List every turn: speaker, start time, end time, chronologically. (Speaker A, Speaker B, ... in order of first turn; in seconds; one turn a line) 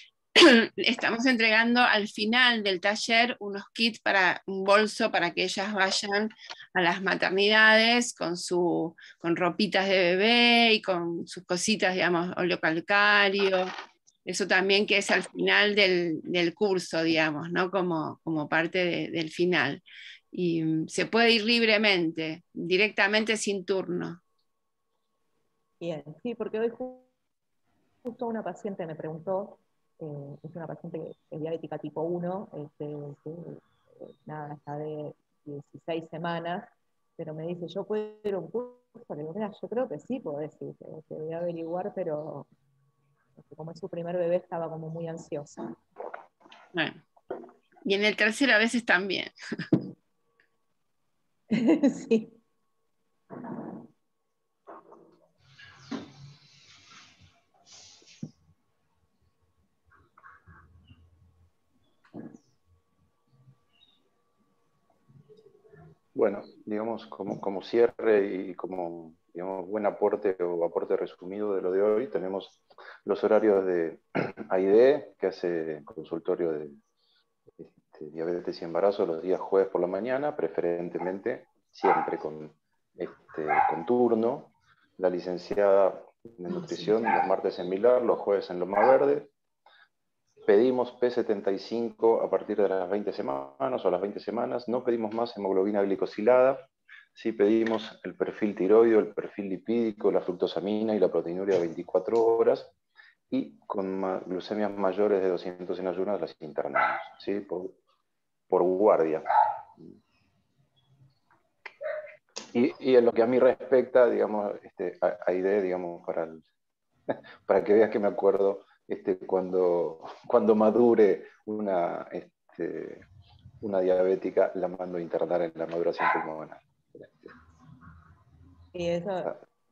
Speaker A: 0.3-13.7
Speaker A: 14.2-24.2
Speaker B: 25.8-27.1
Speaker B: 28.0-42.5
Speaker B: 43.4-45.7
Speaker A: 46.7-47.0
Speaker A: 47.8-49.3
Speaker B: 51.5-52.4
Speaker C: 66.1-76.8
Speaker C: 77.6-89.3
Speaker C: 90.5-102.7
Speaker C: 103.3-107.8
Speaker C: 108.5-109.2
Speaker C: 112.5-116.4
Speaker C: 117.1-123.0
Speaker C: 123.6-127.4
Speaker B: 128.7-129.3